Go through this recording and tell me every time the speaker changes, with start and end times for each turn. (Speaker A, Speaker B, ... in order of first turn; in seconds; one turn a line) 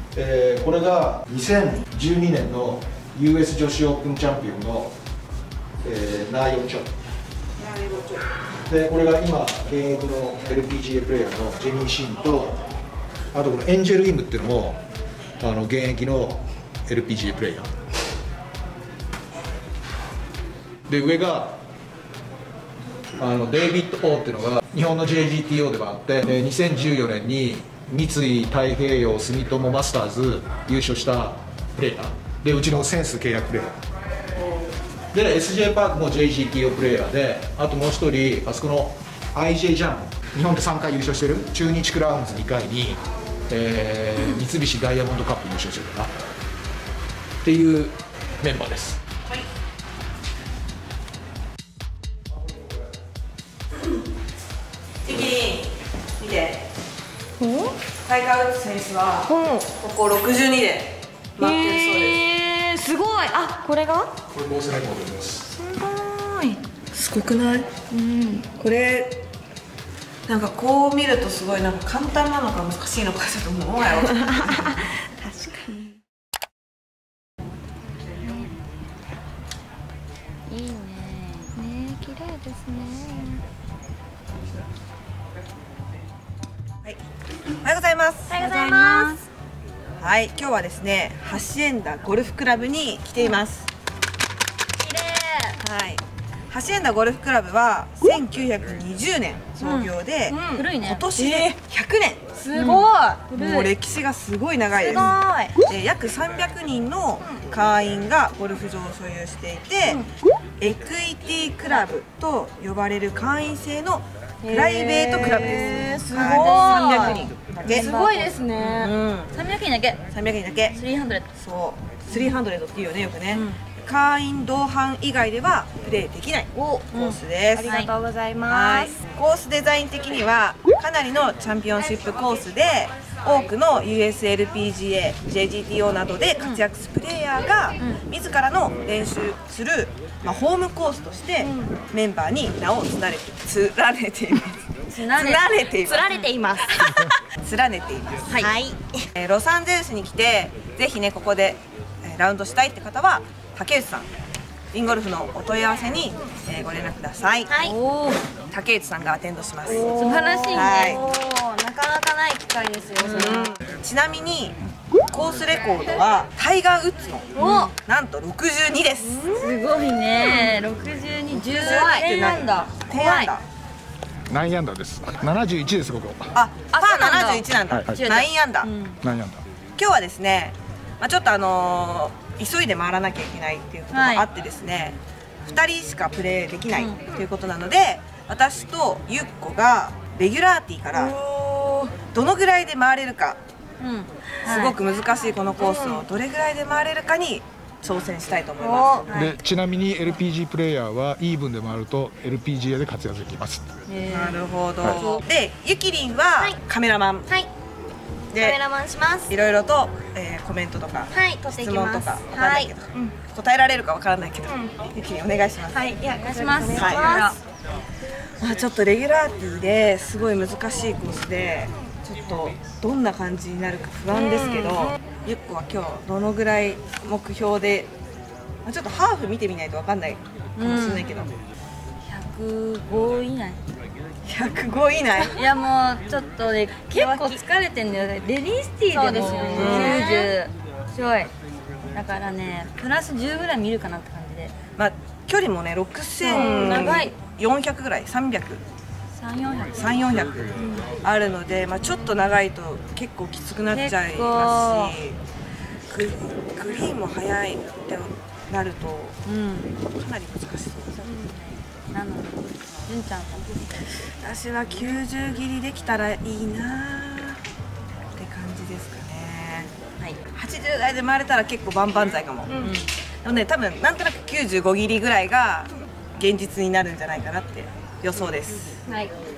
Speaker A: 0.1-4.9
Speaker A: 5.8-6.9
Speaker B: 7.6-8.2
Speaker A: 8.7-12.6
Speaker A: 13.3-14.8
Speaker A: 15.4-17.7
Speaker A: 20.9-21.6
Speaker A: 23.2-33.7
Speaker A: 35.1-46.1
Speaker A: 47.4-49.0
Speaker B: 55.0-56.6
Speaker C: 57.4-57.8
Speaker B: 58.0-62.2
Speaker C: 59.2-59.7
Speaker C: 61.4-64.1
Speaker A: 64.3-65.4
Speaker C: 65.5-66.6
Speaker B: 66.9-67.8
Speaker C: 67.9-68.5
Speaker B: 68.5-69.2
Speaker B: 70.3-74.8
Speaker C: 74.1-75.9
Speaker D: 80.5-81.5
Speaker C: 81.5-83.4
Speaker B: 87.6-88.8
Speaker C: 88.3-89.2
Speaker D: 88.3-89.2
Speaker B: 90.0-93.7
Speaker D: 94.8-95.5
Speaker B: 95.6-105.1
Speaker D: 99.6-99.9
Speaker C: 100.3-100.6
Speaker D: 100.5-101.5
Speaker D: 102.4-103.7
Speaker D: 104.8-105.5
Speaker B: 105.7-110.0
Speaker B: 110.6-119.3
Speaker D: 114.4-120.0
Speaker C: 115.4-118.4
Speaker B: 120.1-120.8
Speaker D: 120.7-121.3
Speaker B: 121.4-127.7
Speaker D: 126.9-127.9
Speaker C: 127.5-129.0
Speaker B: 128.5-146.2
Speaker C: 141.4-141.8
Speaker D: 144.9-145.4
Speaker C: 145.8-147.1
Speaker B: 146.9-148.5
Speaker C: 148.3-149.1
Speaker B: 149.2-154.1
Speaker B: 154.7-157.5
Speaker C: 157.5-157.7
Speaker D: 157.6-158.2
Speaker B: 158.5-160.0
Speaker C: 159.7-160.9
Speaker D: 159.7-163.5
Speaker B: 160.5-161.0
Speaker B: 163.1-164.6
Speaker C: 163.1-163.4
Speaker B: 165.1-169.4
Speaker D: 167.3-167.7
Speaker C: 167.4-167.7
Speaker D: 169.3-173.3
Speaker B: 171.5-173.4
Speaker C: 171.6-172.0
Speaker A: 174.3-176.3
Speaker B: 176.3-178.7
Speaker D: 176.7-179.0
Speaker A: 177.7-178.0
Speaker A: 179.0-179.4
Speaker B: 179.8-191.2
Speaker D: 183.9-184.3
Speaker D: 186.7-187.0
Speaker C: 190.9-191.9
Speaker B: 192.0-193.4
Speaker D: 193.8-195.2
Speaker B: 194.4-199.3
Speaker C: 195.6-196.0
Speaker C: 198.6-199.1
Speaker D: 199.1-199.4
Speaker A: 199.1-203.7
Speaker D: 203.9-204.4
Speaker B: 204.1-207.3
Speaker C: 208.3-209.3
Speaker B: 208.3-208.6
Speaker B: 209.3-215.8
Speaker C: 211.1-213.1
Speaker C: 214.4-214.8
Speaker C: 215.7-217.3
Speaker D: 215.8-217.4
Speaker B: 216.8-217.1
Speaker B: 218.4-227.9
Speaker C: 224.1-225.0
Speaker B: 228.6-231.3
Speaker D: 230.6-231.1
Speaker D: 232.0-233.6
Speaker B: 234.2-235.3
Speaker D: 235.3-241.3
Speaker C: 236.9-237.4
Speaker C: 238.9-240.3
Speaker B: 239.1-240.1
Speaker D: 241.9-244.5
Speaker B: 244.8-248.6
Speaker D: 246.2-247.1
Speaker C: 246.3-247.0
Speaker D: 249.1-250.0
Speaker B: 249.7-255.2
Speaker D: 253.7-254.9
Speaker B: 255.9-259.2
Speaker D: 259.2-259.7
Speaker B: 259.9-260.9
Speaker D: 260.9-264.0
Speaker B: 264.2-267.4
Speaker B: 268.1-269.7
Speaker B: 270.3-272.7
Speaker D: 272.6-272.9
Speaker B: 273.2-278.8